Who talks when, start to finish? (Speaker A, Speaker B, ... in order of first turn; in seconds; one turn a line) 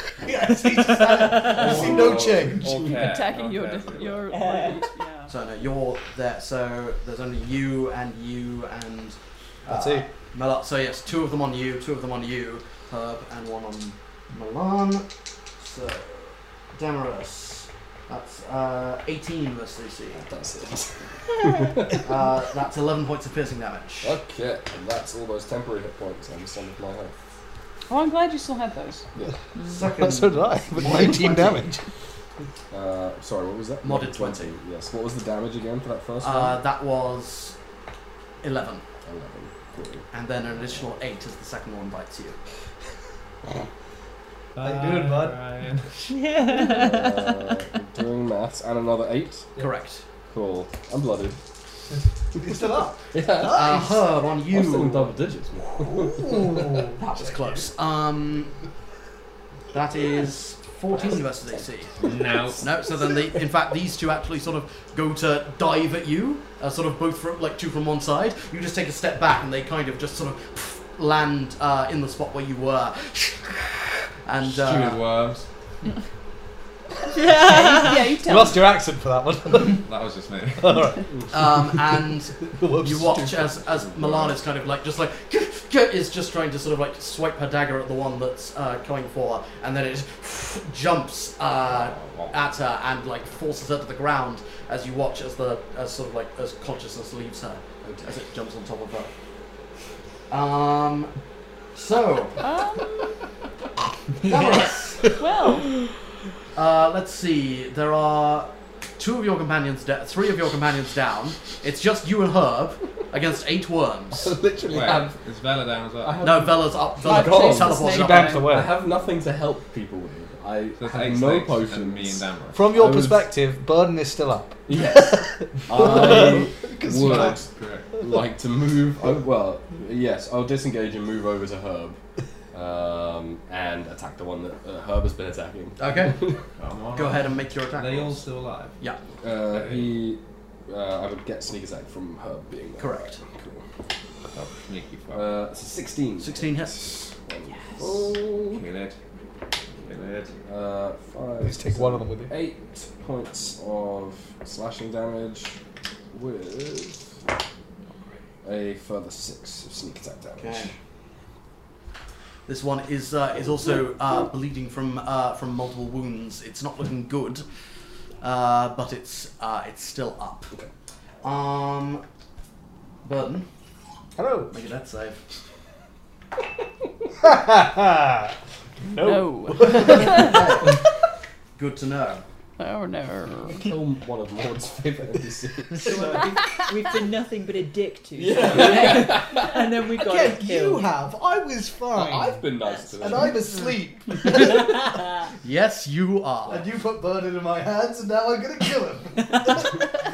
Speaker A: 0.2-2.9
Speaker B: 0.5-1.8
Speaker C: 1.4-3.0
Speaker D: 1.8-4.4
Speaker E: 2.9-5.3
Speaker B: 4.3-4.8
Speaker F: 5.3-20.3
Speaker A: 9.7-10.1
Speaker C: 20.1-22.1
Speaker F: 22.0-24.1
Speaker C: 24.0-27.2
Speaker E: 27.9-29.1
Speaker F: 29.6-31.8
Speaker A: 29.8-31.9
Speaker C: 32.7-36.6
Speaker F: 33.8-34.6
Speaker F: 36.2-37.6
Speaker F: 38.4-38.9
Speaker C: 39.0-40.1
Speaker F: 40.1-42.4
Speaker D: 44.5-46.0
Speaker A: 44.6-45.4
Speaker B: 46.1-47.5
Speaker C: 46.6-49.5
Speaker F: 49.6-50.0
Speaker C: 50.3-51.4
Speaker A: 52.4-54.0
Speaker C: 53.1-56.9
Speaker F: 53.4-55.2
Speaker A: 55.8-57.0
Speaker F: 56.9-58.6
Speaker F: 59.7-62.0
Speaker D: 62.0-62.8
Speaker F: 62.6-75.0
Speaker D: 74.4-75.5
Speaker B: 77.1-78.2
Speaker E: 77.4-78.7
Speaker A: 78.2-79.8
Speaker D: 79.7-81.0
Speaker A: 80.6-83.4
Speaker F: 81.3-99.1
Speaker C: 83.2-84.4
Speaker C: 91.7-92.3
Speaker C: 97.8-98.1
Speaker F: 100.3-101.2
Speaker F: 101.7-102.4
Speaker E: 102.4-103.0
Speaker F: 104.2-105.1
Speaker E: 105.2-105.7
Speaker F: 106.5-115.1
Speaker C: 114.2-115.1
Speaker D: 114.7-116.5
Speaker C: 116.0-117.8
Speaker F: 116.2-118.4
Speaker E: 117.0-118.6
Speaker A: 117.9-118.8
Speaker C: 118.4-123.3
Speaker D: 120.8-122.7
Speaker A: 122.5-127.4
Speaker C: 124.7-132.0
Speaker D: 125.8-126.1
Speaker D: 126.9-128.0
Speaker C: 132.5-136.4
Speaker F: 135.8-136.2
Speaker D: 136.5-138.8
Speaker F: 136.9-138.2
Speaker C: 139.2-143.6
Speaker D: 139.5-140.0
Speaker F: 142.8-143.2
Speaker D: 144.3-145.3
Speaker C: 145.1-148.7
Speaker F: 146.2-146.8
Speaker D: 148.4-149.0
Speaker D: 149.8-150.3
Speaker C: 150.5-155.6
Speaker A: 151.4-152.4
Speaker C: 156.1-157.1
Speaker C: 158.4-160.7
Speaker F: 160.4-160.7
Speaker F: 162.5-167.5
Speaker F: 168.2-170.5
Speaker F: 171.2-172.0
Speaker F: 173.0-173.5
Speaker A: 174.2-174.5
Speaker F: 174.5-175.2
Speaker A: 177.2-180.5
Speaker E: 179.0-180.6
Speaker F: 179.8-180.8
Speaker F: 181.6-182.2
Speaker E: 182.6-183.7
Speaker C: 183.6-186.1
Speaker A: 185.8-186.4
Speaker B: 185.8-190.9
Speaker C: 188.2-189.6
Speaker A: 190.0-195.1
Speaker C: 191.9-193.4
Speaker F: 195.4-196.7
Speaker A: 196.5-199.8